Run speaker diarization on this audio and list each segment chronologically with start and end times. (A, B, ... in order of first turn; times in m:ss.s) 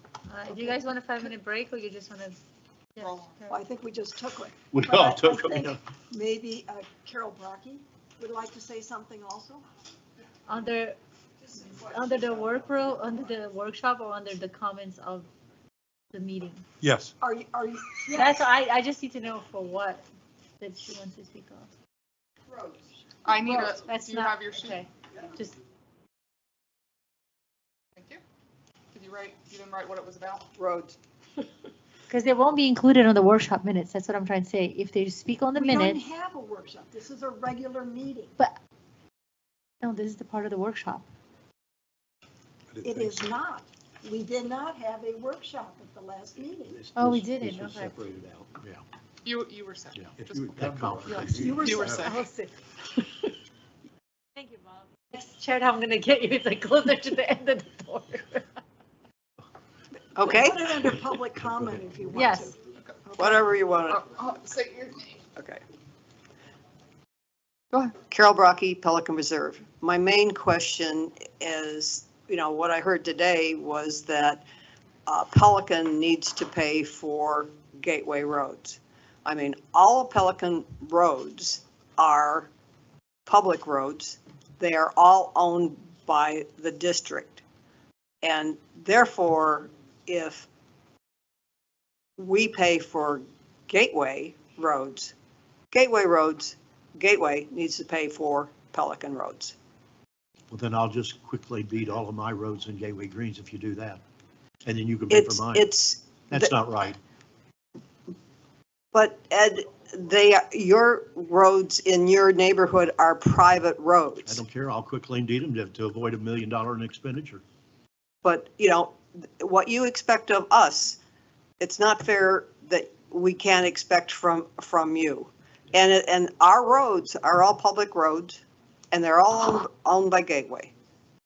0:00.3-0:02.4 A
0:03.0-0:03.6 A
0:03.0-0:03.4 B
0:03.5-0:09.6 C
0:04.7-0:05.8 D
0:10.5-0:11.0 A
0:11.7-0:15.3 A
0:16.1-0:16.6 A
0:16.8-0:17.1 E
0:17.2-0:18.4 C
0:18.1-0:20.0 A
0:20.6-0:21.7 A
0:23.2-0:24.8 B
0:23.4-0:25.6 A
0:28.9-0:30.5 B
0:30.6-0:31.0 F
0:32.1-0:36.0 A
0:35.6-0:38.3 C
0:39.8-0:41.0 A
0:42.7-0:43.3 E
0:42.8-0:46.8 C
0:46.6-0:48.8 D
0:46.9-0:47.9 A
0:49.2-0:50.4 B
0:50.0-0:51.6 D
0:50.2-0:52.1 E
0:51.0-0:52.3 B
0:51.4-0:52.1 C
0:51.9-0:53.3 A
0:54.4-0:58.5 A
1:00.1-1:00.9 F
1:00.2-1:02.5 C
1:02.1-1:02.6 A
1:02.7-1:05.2 B
1:03.2-1:04.0 F
1:07.9-1:14.4 F
1:15.0-1:22.5 F
1:23.2-1:27.4 F
1:28.2-1:30.5 F
1:32.2-1:35.1 F
1:35.7-1:39.5 F
1:40.5-1:44.0 D
1:44.6-1:45.7 D
1:45.1-1:46.5 F
1:46.3-1:47.0 D
1:48.9-1:54.4 F
1:54.2-1:57.4 D
1:58.2-2:01.0 F
2:01.6-2:08.4 F
2:08.9-2:10.7 F